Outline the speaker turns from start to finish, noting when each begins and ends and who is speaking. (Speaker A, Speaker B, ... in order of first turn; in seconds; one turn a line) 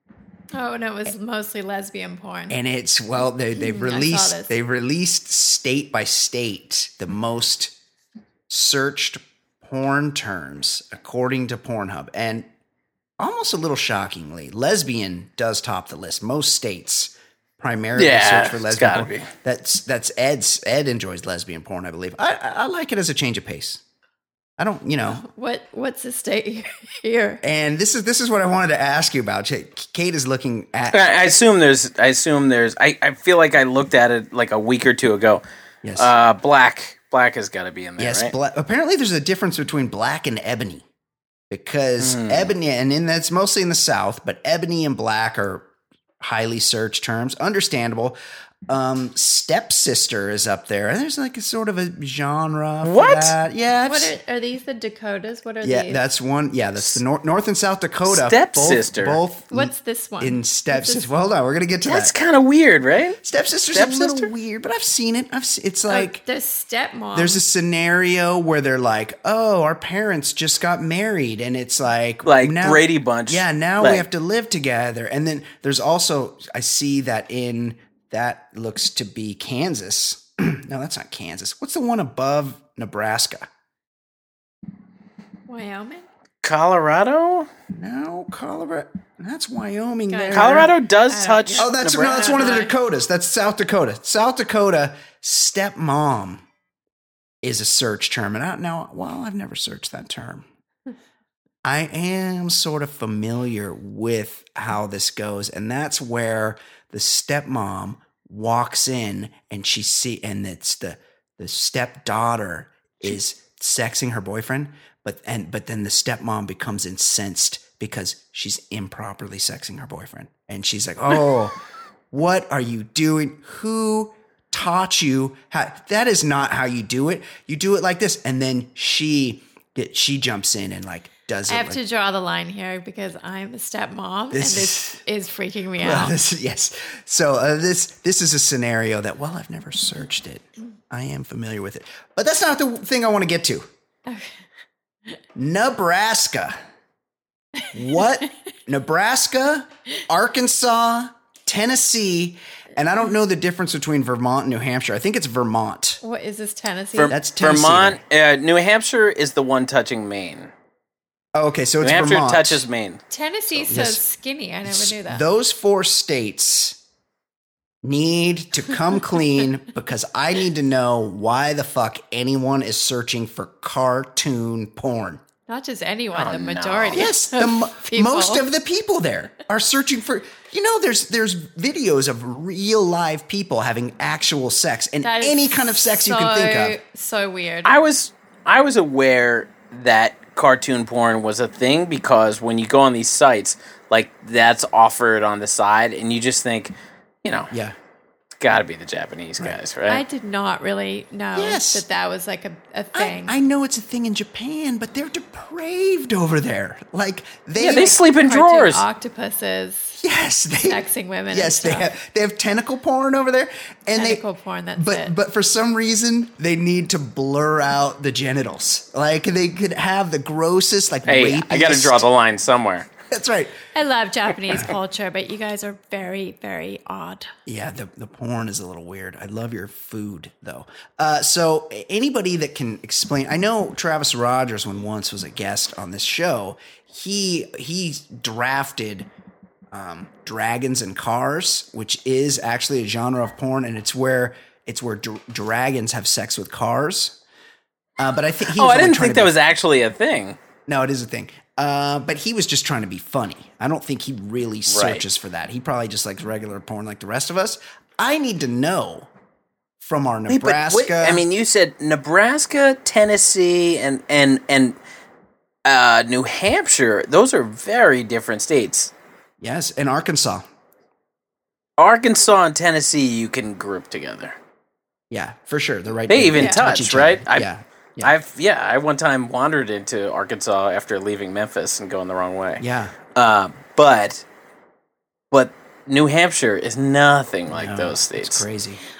Speaker A: 0.5-2.6
Speaker B: 2.5-7.7
Speaker A: 3.5-4.5
Speaker B: 8.5-12.5
Speaker B: 13.2-23.8
Speaker C: 17.9-19.3
Speaker B: 24.6-25.2
Speaker A: 25.2-27.4
Speaker B: 27.4-31.1
Speaker C: 30.9-35.4
Speaker B: 35.8-36.1
Speaker C: 36.0-38.3
Speaker B: 38.0-40.9
Speaker B: 41.5-45.7
Speaker C: 42.0-42.5
Speaker B: 46.2-48.2
Speaker B: 48.7-54.1
Speaker C: 52.8-53.3
Speaker A: 53.9-56.0
Speaker B: 55.6-62.1
Speaker C: 58.0-59.2
Speaker A: 59.5-61.1
Speaker C: 61.9-63.2
Speaker B: 63.2-66.2
Speaker C: 63.7-64.3
Speaker A: 65.9-67.4
Speaker B: 67.1-83.5
Speaker C: 72.2-74.0
Speaker A: 85.5-86.0
Speaker C: 86.4-87.5
Speaker B: 87.7-90.7
Speaker A: 90.1-92.7
Speaker C: 90.3-92.7
Speaker B: 91.6-96.4
Speaker B: 97.4-100.5
Speaker B: 101.6-121.6
Speaker B: 122.1-131.8
Speaker A: 131.5-136.1
Speaker B: 134.3-135.0
Speaker B: 135.8-143.7
Speaker A: 144.1-144.4
Speaker B: 145.3-146.6
Speaker B: 147.7-156.0
Speaker A: 156.0-157.1
Speaker C: 156.9-160.5
Speaker B: 157.1-158.0
Speaker B: 161.3-162.6
Speaker C: 161.8-163.0
Speaker A: 163.1-165.2
Speaker B: 163.7-164.0
Speaker B: 164.6-166.8
Speaker B: 167.8-175.2
Speaker A: 175.5-178.4
Speaker C: 176.1-177.1
Speaker B: 176.9-186.8
Speaker A: 185.0-187.7
Speaker C: 187.6-196.7
Speaker C: 197.2-197.5
Speaker B: 197.5-197.8
Speaker C: 198.4-200.0
Speaker A: 199.9-203.4
Speaker B: 201.3-201.8
Speaker B: 202.9-208.0
Speaker C: 207.6-208.8
Speaker A: 207.6-210.0
Speaker B: 210.0-214.2
Speaker A: 210.7-211.9
Speaker A: 214.0-215.1
Speaker B: 214.8-222.0
Speaker C: 221.1-222.9
Speaker B: 223.1-223.6
Speaker A: 223.7-227.3
Speaker B: 227.4-239.1
Speaker B: 239.7-247.2
Speaker B: 248.0-249.3
Speaker C: 248.5-250.4
Speaker B: 250.7-259.1
Speaker C: 254.7-255.0
Speaker B: 259.8-261.2
Speaker C: 260.3-264.8
Speaker C: 265.6-268.9
Speaker B: 269.4-270.4
Speaker C: 271.8-274.4
Speaker B: 275.1-278.1
Speaker C: 276.1-277.5
Speaker A: 276.4-276.6
Speaker C: 278.0-282.6
Speaker B: 282.6-282.9
Speaker C: 283.1-284.2
Speaker C: 285.3-288.4
Speaker B: 287.5-288.8